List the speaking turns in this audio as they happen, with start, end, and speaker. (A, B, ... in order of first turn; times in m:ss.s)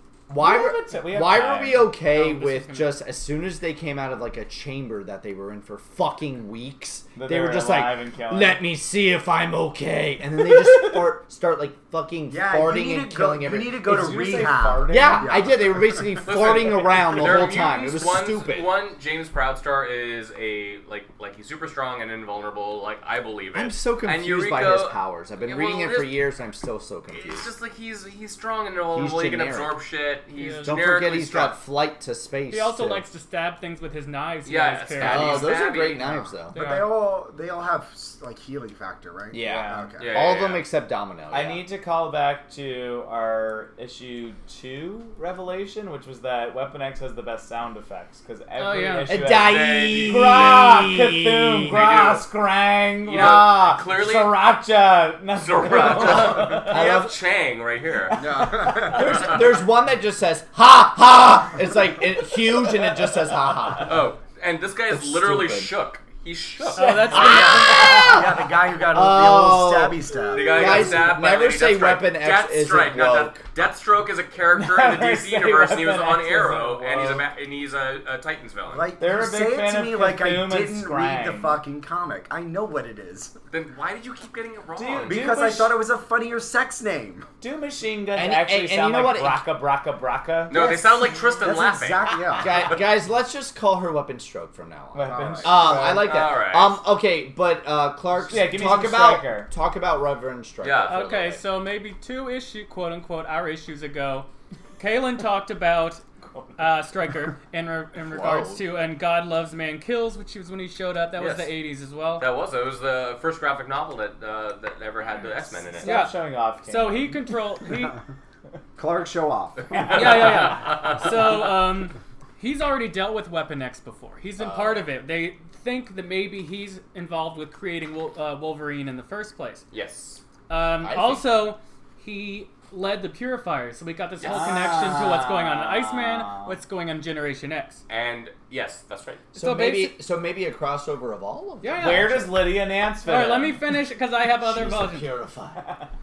0:00.3-0:13.8 A
0:00.4-0:01.9 B
0:02.0-0:03.0 C
0:07.2-0:08.6 B
0:10.4-0:11.1 B
0:12.3-0:16.0 D
0:13.8-0:15.5 B
0:14.9-0:18.7 A
0:16.2-0:26.2 E
0:23.5-0:27.5 A
0:27.1-0:31.6 E
0:28.9-0:29.8 A
0:30.3-0:30.8 C
0:30.6-0:33.0 A
0:32.5-0:35.6 C
0:34.4-0:36.2 E
0:35.0-0:36.6 A
0:36.1-0:40.3 D
0:36.5-0:36.9 C
0:39.3-0:41.6 A
0:39.4-0:39.9 B
0:40.0-0:40.6 E
0:41.3-0:56.8 B
0:48.6-0:49.2 C
0:49.1-0:52.2 A
0:49.3-0:50.6 E
0:51.8-0:52.2 E
0:53.0-0:54.4 E
0:55.4-0:58.3 E
0:56.2-0:57.2 A
0:58.1-0:59.3 D
0:58.4-1:04.1 A
0:58.9-0:59.4 E
1:03.8-1:07.2 E
1:04.9-1:05.7 A
1:06.7-1:08.2 B
1:06.7-1:07.9 C
1:07.1-1:13.5 A
1:07.2-1:11.0 D
1:10.3-1:18.9 E
1:14.5-1:17.2 B
1:18.7-1:23.3 D
1:19.0-1:21.6 B
1:23.5-1:25.2 E
1:24.8-1:25.8 B
1:25.0-1:27.3 D
1:27.4-1:30.6 B
1:28.1-1:29.5 A
1:30.5-1:32.8 E
1:30.5-1:32.8 D
1:32.4-1:41.4 A
1:34.9-1:36.1 B
1:35.0-1:35.6 D
1:36.0-1:36.8 E
1:38.3-1:39.5 B
1:40.6-1:41.0 E
1:40.8-1:46.0 C
1:46.3-1:46.6 B
1:46.6-1:52.3 C
1:48.1-1:48.6 A
1:51.2-1:51.5 E
1:52.2-1:55.9 E
1:55.7-1:57.3 B
1:55.8-1:58.0 C
1:58.8-1:59.9 D
1:59.7-2:00.4 B
1:59.8-2:01.3 E
1:59.9-2:09.6 C
2:04.4-2:04.8 E
2:09.7-2:10.2 E
2:10.5-2:17.8 C
2:10.8-2:11.3 A
2:14.2-2:14.6 E
2:14.2-2:16.6 B
2:17.9-2:19.3 E
2:19.4-2:19.9 C
2:19.4-2:22.3 A
2:21.6-2:22.3 C
2:21.8-2:23.6 B
2:23.0-2:25.1 C
2:24.4-2:25.7 A